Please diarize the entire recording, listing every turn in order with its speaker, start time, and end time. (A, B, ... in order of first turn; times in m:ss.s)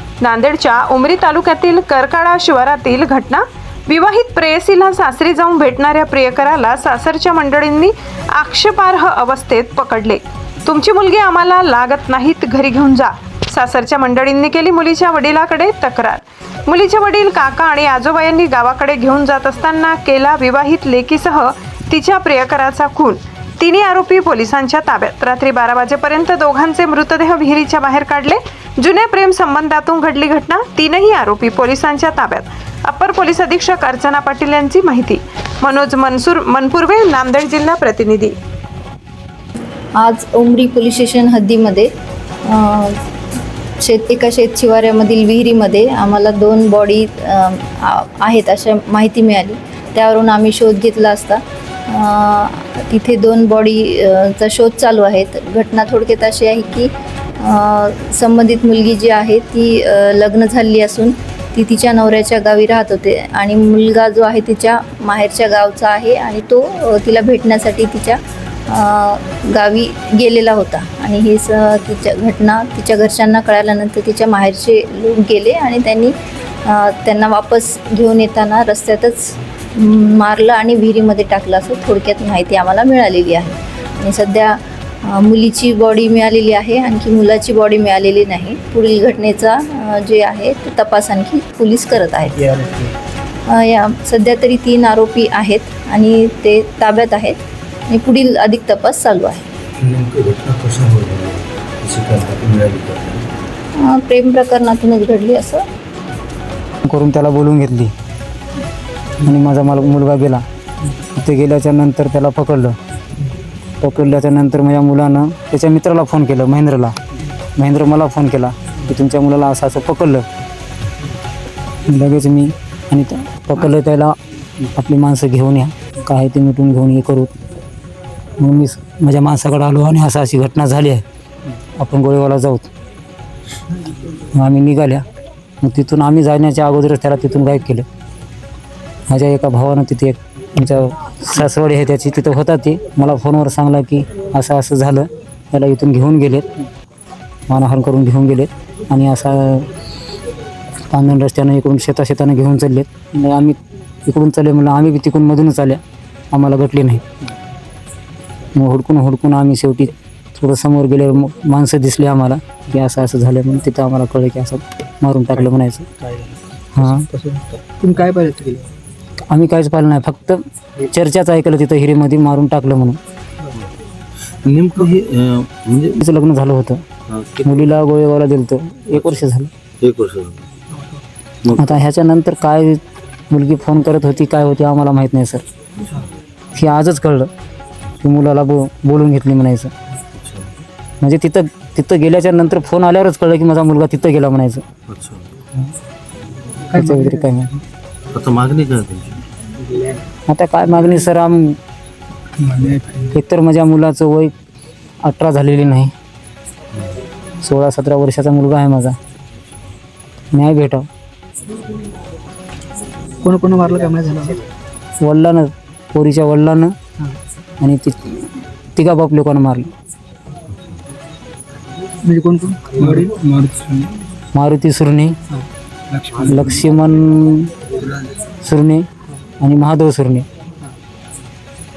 0:00.2-0:38.3 A
0:40.0-0:41.9 B
0:42.4-0:43.0 B
0:43.8-1:32.6 B
1:32.5-1:32.9 C
1:33.5-1:37.4 B
1:37.9-1:39.4 B
1:39.8-1:43.2 D
1:43.8-1:45.6 B
1:46.8-1:47.9 E
1:49.2-1:50.4 E
1:51.1-1:52.8 E
1:53.8-1:57.0 E
1:57.6-2:00.2 E
2:01.8-2:07.3 E
2:08.4-2:11.0 E
2:11.8-2:12.7 E
2:14.3-2:15.0 E
2:15.6-2:17.8 E
2:19.1-2:26.5 E
2:27.5-2:29.7 E
2:30.9-2:35.8 E
2:36.3-2:37.0 E
2:38.5-2:45.9 E
2:46.0-2:46.4 C
2:46.8-2:47.1 E
2:47.1-2:48.7 C
2:49.3-2:53.0 E
2:54.4-2:56.0 D
2:56.0-2:56.8 E
2:57.1-2:57.7 D
2:57.4-2:59.5 E
2:58.9-2:59.2 D
2:59.8-3:00.5 D
3:01.4-3:01.8 D
3:01.6-3:05.4 E
3:06.5-3:07.3 E
3:08.0-3:09.7 E
3:10.1-3:10.5 D
3:11.0-3:14.6 E
3:14.9-3:15.3 D
3:16.7-3:17.4 C
3:16.7-3:17.5 E
3:18.1-3:19.2 D
3:19.6-3:20.0 C
3:20.3-3:21.6 E
3:22.4-3:23.2 C
3:23.1-3:24.3 E
3:25.0-3:25.9 E
3:27.4-3:29.0 E
3:30.3-3:30.8 E
3:33.2-3:34.5 C
3:35.0-3:36.7 E
3:37.6-3:39.7 E
3:42.0-3:43.9 C
3:44.3-3:45.2 E
3:45.4-3:46.4 C
3:46.2-3:47.5 E
3:48.4-3:48.8 E
3:49.4-3:50.2 E